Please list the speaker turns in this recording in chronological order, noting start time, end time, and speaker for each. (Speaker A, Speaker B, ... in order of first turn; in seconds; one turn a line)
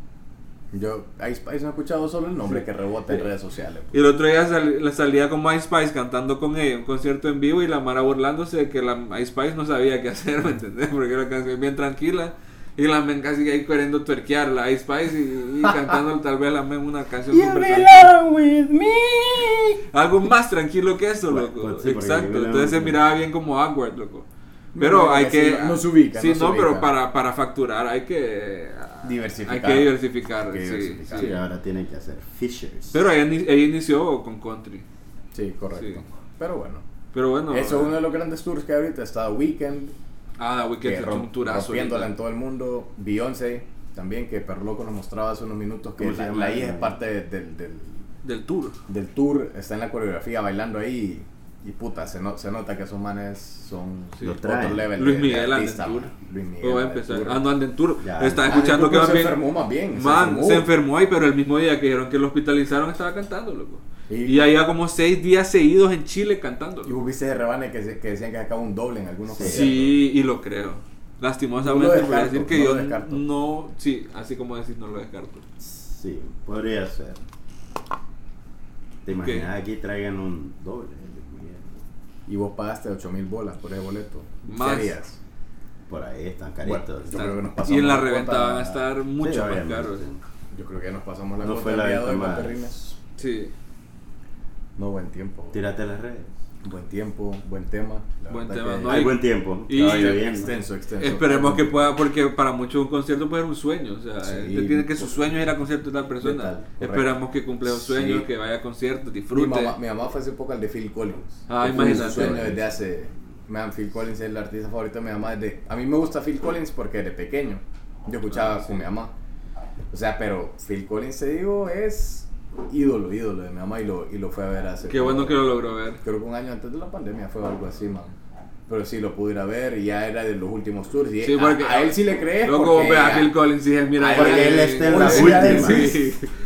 Speaker A: 0.7-4.0
Speaker B: 3.9-18.1
Speaker C: 17.3-19.8
Speaker B: 19.9-24.2
Speaker C: 21.3-23.0
Speaker A: 24.7-26.9
Speaker B: 24.8-31.3
Speaker A: 29.0-31.4
Speaker C: 31.1-33.0
Speaker B: 32.9-34.8
Speaker A: 35.3-36.8
Speaker B: 37.1-38.0
Speaker A: 37.5-39.9
Speaker B: 40.4-42.1
Speaker A: 40.8-48.0
Speaker C: 46.0-47.0
Speaker B: 48.2-48.8
Speaker A: 48.9-57.5
Speaker C: 54.2-54.9
Speaker B: 54.9-59.4
Speaker C: 58.0-58.5
Speaker A: 58.4-60.7
Speaker B: 59.9-66.9
Speaker A: 64.1-64.5
Speaker A: 66.8-70.0
Speaker C: 69.3-69.8
Speaker B: 69.4-75.4
Speaker A: 71.6-73.2
Speaker C: 75.6-77.2
Speaker C: 79.0-81.8
Speaker B: 79.2-79.5
Speaker A: 82.3-85.2
Speaker B: 84.4-84.9
Speaker C: 85.9-87.3
Speaker A: 86.6-88.8
Speaker B: 87.1-90.0
Speaker C: 89.2-90.2
Speaker A: 90.5-92.8
Speaker C: 91.4-92.9
Speaker B: 93.2-93.5
Speaker A: 94.8-95.6
Speaker C: 95.5-96.3
Speaker A: 96.6-99.1
Speaker B: 98.3-100.4
Speaker C: 98.8-100.5
Speaker A: 99.8-101.8
Speaker B: 101.0-109.8
Speaker A: 104.2-105.2
Speaker A: 106.2-108.3
Speaker A: 109.3-119.1
Speaker B: 111.5-112.5
Speaker C: 111.6-112.6
Speaker B: 118.3-118.8
Speaker A: 119.9-125.4
Speaker B: 124.9-126.0
Speaker A: 126.0-128.1
Speaker A: 128.7-133.3
Speaker B: 131.2-136.3
Speaker A: 133.9-136.1
Speaker C: 134.1-135.9